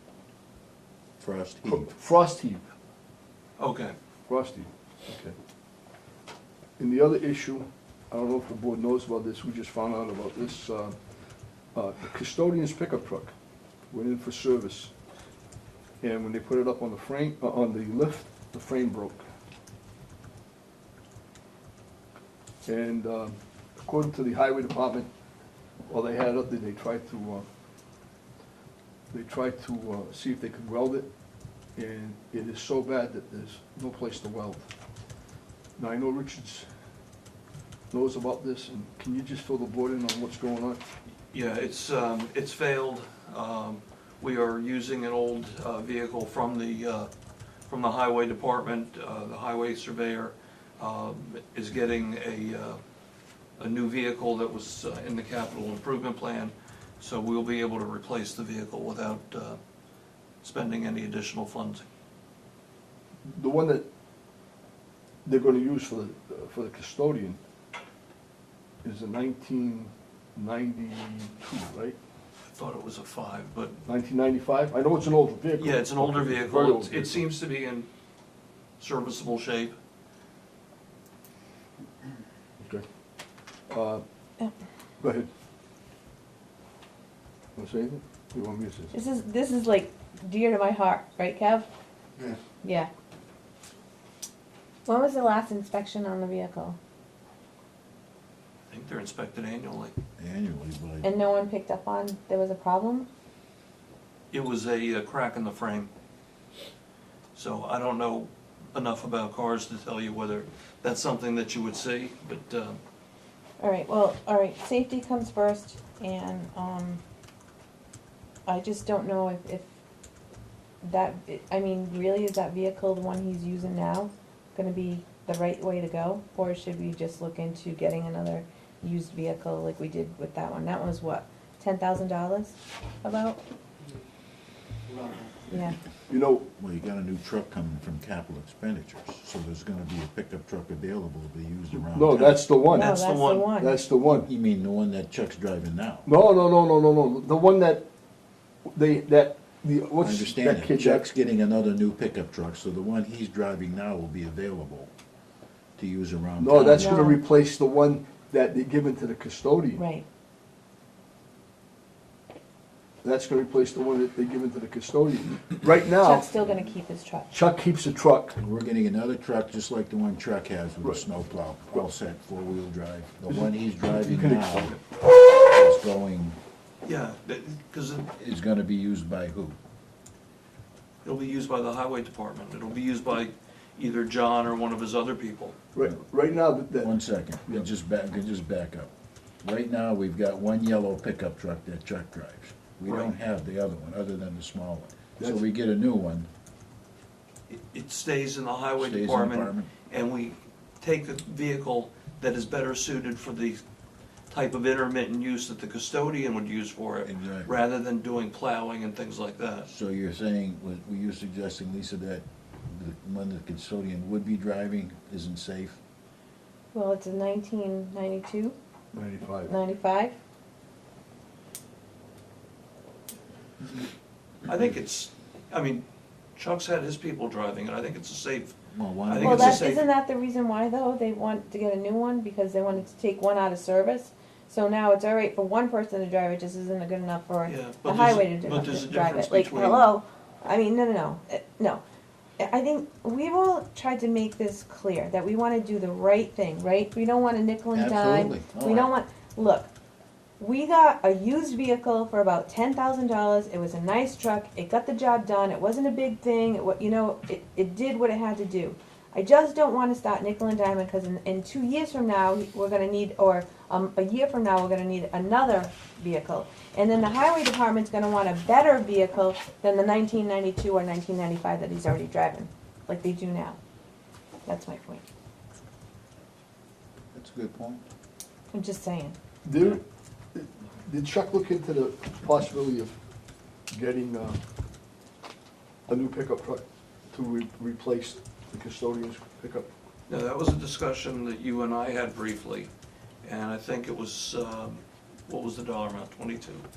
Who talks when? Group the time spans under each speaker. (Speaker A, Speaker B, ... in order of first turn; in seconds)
Speaker A: 1.2-1.9, 100.2-101.1, 136.6-142.4, 144.1-146.1, 150.0-154.9, 155.8-157.1, 168.3-176.4, 178.2-179.6, 186.8-188.9, 189.4-196.3, 198.8-199.7, 207.0-207.5, 209.7-215.8, 228.7-229.7, 247.7-248.9, 277.1-277.8
Speaker B: 1.6-2.6, 4.3-5.3, 6.8-13.3, 13.9-14.9, 16.0-19.2, 22.6-25.1, 25.9-27.5, 29.1-31.1, 31.7-34.6, 35.8-36.7, 37.9-40.8, 63.2-63.8, 65.2-67.4, 68.8-72.0, 73.8-77.3, 82.6-82.8, 83.7-84.0, 85.0-85.3, 87.5-88.9, 136.1-136.4, 141.7-143.0, 143.5-144.3, 146.0-147.8, 148.7-151.1, 156.4-159.8, 163.0-166.3, 167.3-168.4, 173.3-174.8, 185.7-187.6, 218.9-219.5, 279.4-279.8, 280.3-282.9, 283.7-284.4, 285.9-289.7
Speaker C: 3.6-3.9, 41.3-47.1, 47.7-52.8, 53.6-59.6, 60.4-61.8, 72.5-73.8, 75.6-77.9, 78.8-79.8, 98.7-99.9, 104.3-105.9, 107.3-112.8, 142.7-143.5, 176.8-178.1, 181.0-185.6, 192.9-193.1, 197.5-203.6, 204.3-209.7, 224.4-229.9, 237.4-239.9, 290.1-292.7, 293.2-296.7
Speaker D: 88.9-91.7, 92.6-92.9, 94.8-96.8, 101.0-103.1, 113.6-117.0, 118.5-119.6, 120.8-133.4, 135.5-135.8, 142.7-143.8, 156.8-157.2, 159.8-160.0, 166.0-167.3, 216.7-218.6, 219.5-220.2, 229.2-241.8, 242.4-249.7, 250.4-273.6, 274.4-275.0, 278.5-279.1